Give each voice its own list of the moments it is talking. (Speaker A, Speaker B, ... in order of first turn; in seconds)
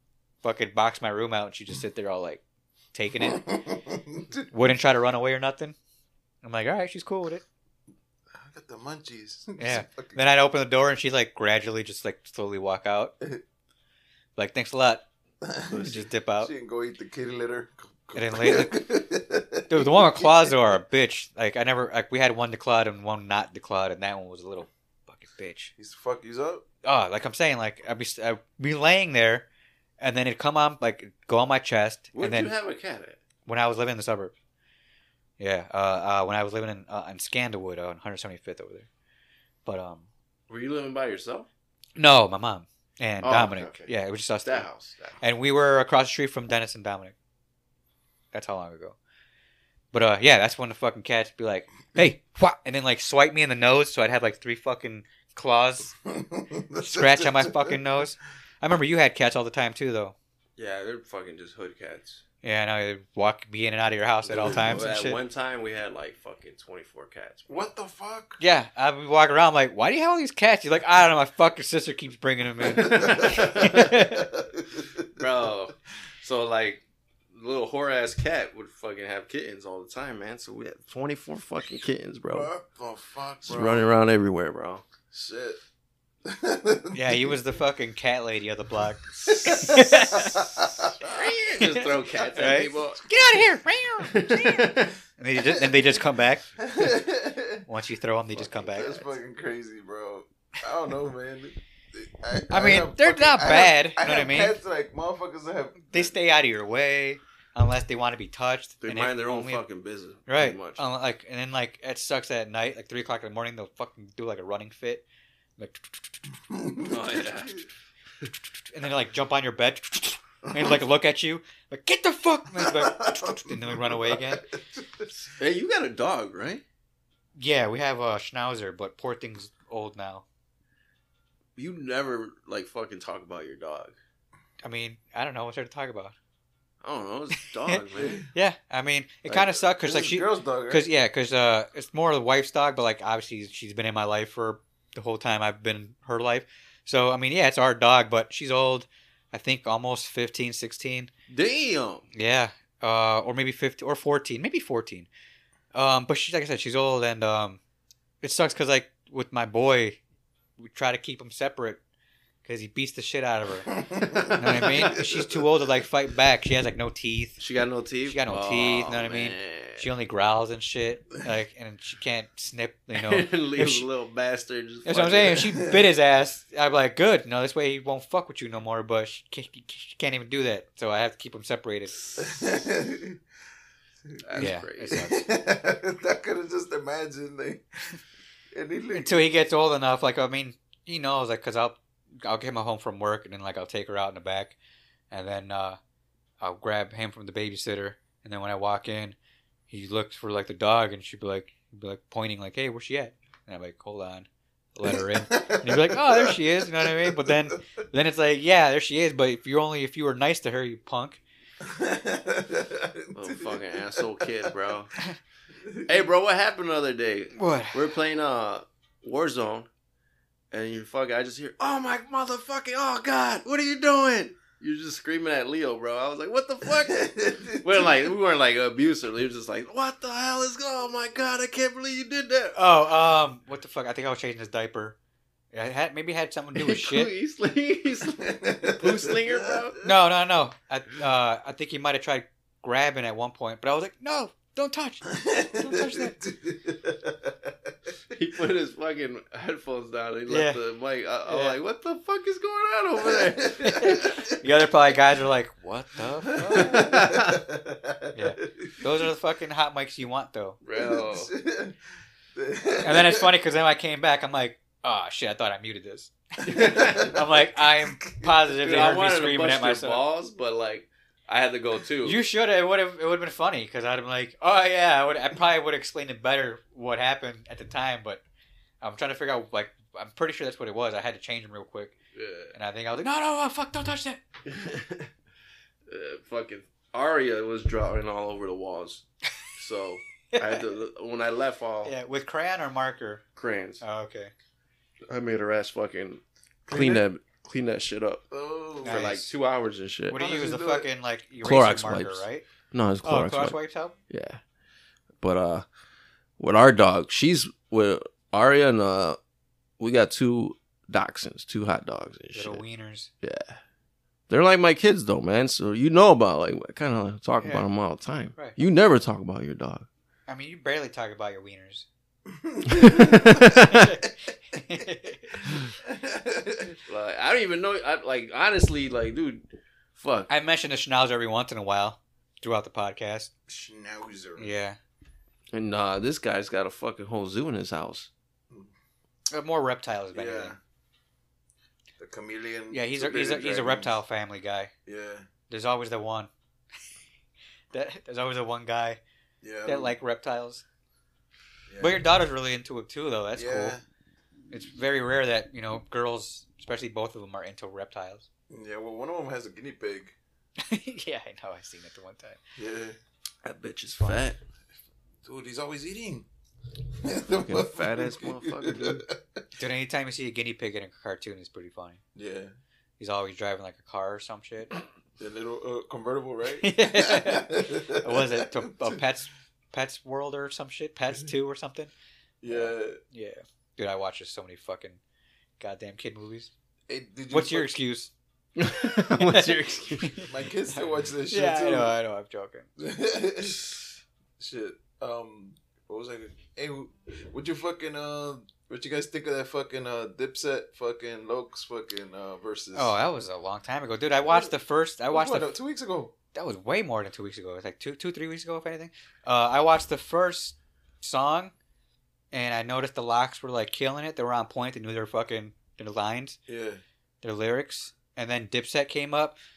Speaker A: 0.4-2.4, 2.9-3.5, 4.5-5.8, 6.4-7.4, 9.6-13.1, 14.4-15.0, 15.7-16.5, 18.1-18.8, 19.7-25.7, 26.8-29.4, 30.0-32.5, 33.5-34.3, 35.4-38.9, 39.6-40.1, 42.0-44.7, 45.2-47.1, 48.3-49.0, 49.9-55.9, 56.8-60.1, 62.4-65.2, 68.4-74.3, 86.9-90.4, 91.6-96.5, 97.7-99.1, 102.5-104.6, 105.8-109.6, 110.3-115.0, 115.6-116.3, 118.7-124.5, 127.3-130.2, 134.6-136.1, 138.3-151.1, 152.1-155.1, 155.7-157.6, 158.2-160.0, 160.6-161.8, 162.4-163.8, 164.4-167.4, 168.1-173.8, 174.8-182.0, 184.4-185.2, 188.9-194.6, 195.1-195.8, 196.4-199.2, 199.7-211.2, 217.3-217.9, 232.5-234.9, 235.5-237.1, 239.8-246.2, 250.3-250.6, 251.3-251.6, 253.6-257.0, 258.1-260.6, 262.8-270.0, 272.0-278.2, 278.8-281.9, 282.5-284.2, 290.3-290.6, 291.8-293.2, 293.8-294.3, 298.8-299.2, 300.1-302.4, 303.0-303.9, 312.3-313.1, 320.3-321.9, 323.2-325.5, 330.3-333.3, 334.4-334.8, 339.3-340.6, 342.7-344.7, 345.5-346.3, 347.7-349.0, 349.6-350.6, 351.8-353.7, 354.5-358.3, 360.6-362.4, 369.6-372.0, 373.0-374.7, 376.6-381.9, 382.5-385.0, 385.6-386.5, 387.3-388.1, 389.1-392.7, 402.7-405.6, 406.3-411.5, 412.3-416.4, 417.2-419.4
Speaker B: 3.2-4.5, 8.3-10.2, 15.4-20.5, 25.8-26.6, 56.0-57.8, 64.4-64.8, 67.5-68.4, 72.8-75.2, 82.3-83.8, 85.1-85.6, 86.2-87.4, 89.2-91.2, 96.6-97.6, 98.3-106.1, 116.5-117.5, 122.5-125.1, 137.9-138.2, 139.8-140.8, 163.7-165.4, 182.2-183.2, 184.1-187.6, 188.5-189.3, 204.8-207.4, 211.6-214.7, 215.6-215.9, 226.8-228.0, 238.2-239.9, 245.1-247.7, 253.1-253.5, 256.3-258.7, 260.7-261.8, 262.3-263.3, 266.5-268.5, 296.7-297.0, 298.3-299.1, 300.1-300.9, 322.3-323.6, 325.8-326.8, 333.5-334.5, 340.1-340.6, 342.0-343.9, 344.9-345.3, 349.4-349.9, 351.7-352.0, 353.3-353.8, 358.5-360.1, 362.6-362.9, 365.2-366.2, 366.9-369.4, 372.1-372.5, 375.2-379.0, 382.4-383.0, 386.9-387.8, 390.3-391.9, 392.8-393.7, 394.4-402.9, 404.3-404.5, 405.1-406.1, 416.5-416.8
Speaker C: 32.1-33.2, 40.5-41.5, 43.2-43.9, 44.4-45.2, 60.6-62.2, 64.3-67.6, 72.8-73.9, 75.1-82.5, 83.4-84.8, 89.2-90.4, 91.0-93.0, 94.0-94.9, 108.8-110.8, 116.8-117.6, 125.3-126.6, 131.6-133.9, 136.8-138.2, 139.3-139.6, 151.3-152.0, 167.4-169.9, 172.9-175.5, 182.0-182.3, 184.2-185.0, 213.1-214.9, 215.8-219.7, 220.5-232.6, 236.5-239.8, 248.1-254.2, 256.5-257.4, 260.6-261.3, 266.4-267.2, 268.6-272.2, 282.1-282.5, 284.5-285.1, 285.9-289.0, 289.6-291.9, 293.4-293.8, 295.1-298.2, 298.8-300.2, 301.4-303.6, 304.1-304.4, 305.2-305.6, 306.4-309.2, 309.8-312.6, 313.2-313.6, 314.3-319.9, 322.7-323.9, 326.9-330.3, 335.5-338.1, 363.4-364.4, 367.4-369.0, 388.6-390.2